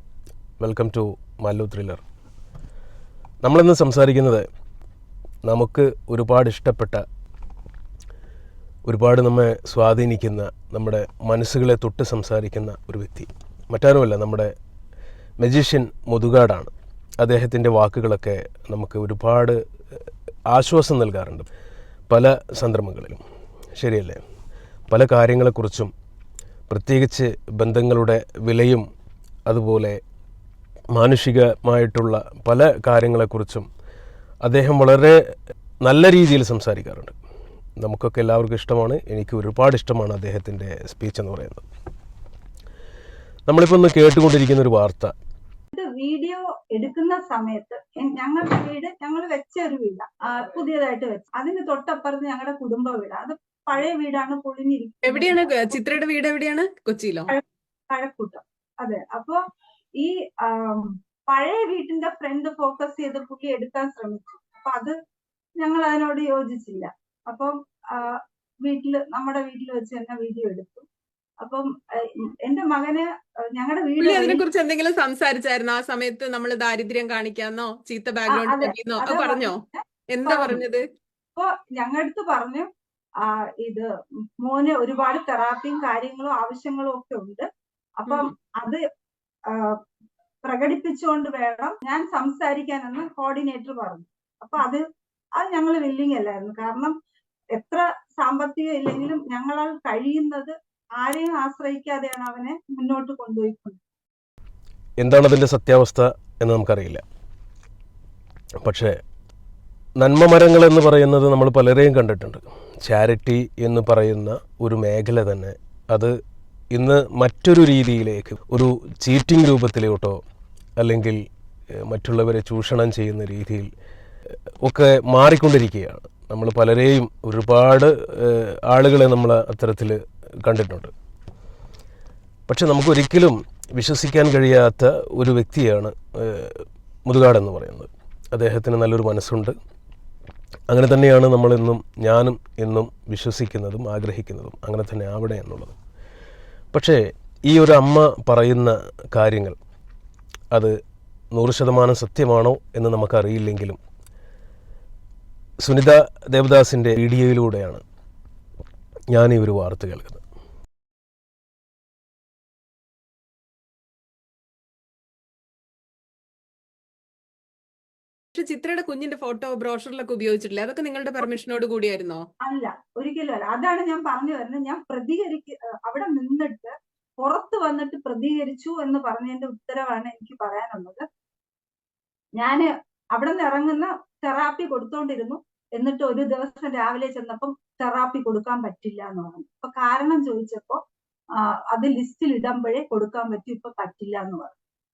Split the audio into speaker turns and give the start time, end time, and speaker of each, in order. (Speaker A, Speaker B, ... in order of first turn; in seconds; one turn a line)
Speaker A: 0.6-2.0
Speaker A: 3.4-4.5
Speaker A: 5.4-7.0
Speaker A: 8.8-14.5
Speaker A: 15.4-19.6
Speaker A: 20.5-21.5
Speaker A: 22.1-23.2
Speaker A: 23.8-24.2
Speaker A: 24.9-25.9
Speaker A: 26.7-28.9
Speaker A: 29.5-30.0
Speaker A: 30.9-33.7
Speaker A: 34.4-35.2
Speaker A: 35.8-37.1
Speaker A: 37.8-41.6
Speaker A: 43.5-45.1
Speaker B: 45.7-55.3
Speaker C: 55.0-57.3
Speaker B: 57.3-59.4
Speaker B: 60.0-64.9
Speaker B: 65.6-70.8
Speaker B: 71.4-74.4
Speaker C: 74.0-79.6
Speaker B: 78.3-80.6
Speaker C: 80.1-80.8
Speaker B: 81.3-82.7
Speaker B: 83.2-83.9
Speaker B: 84.4-87.5
Speaker B: 88.0-88.8
Speaker C: 88.1-88.3
Speaker B: 89.5-89.8
Speaker B: 90.4-94.8
Speaker B: 95.4-96.9
Speaker B: 97.6-103.8
Speaker A: 105.0-107.0
Speaker A: 108.6-109.0
Speaker A: 110.0-116.2
Speaker A: 116.7-120.2
Speaker A: 120.8-123.7
Speaker A: 124.6-130.9
Speaker A: 132.5-139.6
Speaker A: 140.7-145.8
Speaker A: 146.7-149.6
Speaker A: 151.3-153.8
Speaker A: 155.6-157.8
Speaker A: 159.1-160.2
Speaker C: 168.3-172.2
Speaker B: 172.4-181.0
Speaker B: 182.4-190.8
Speaker B: 191.4-194.5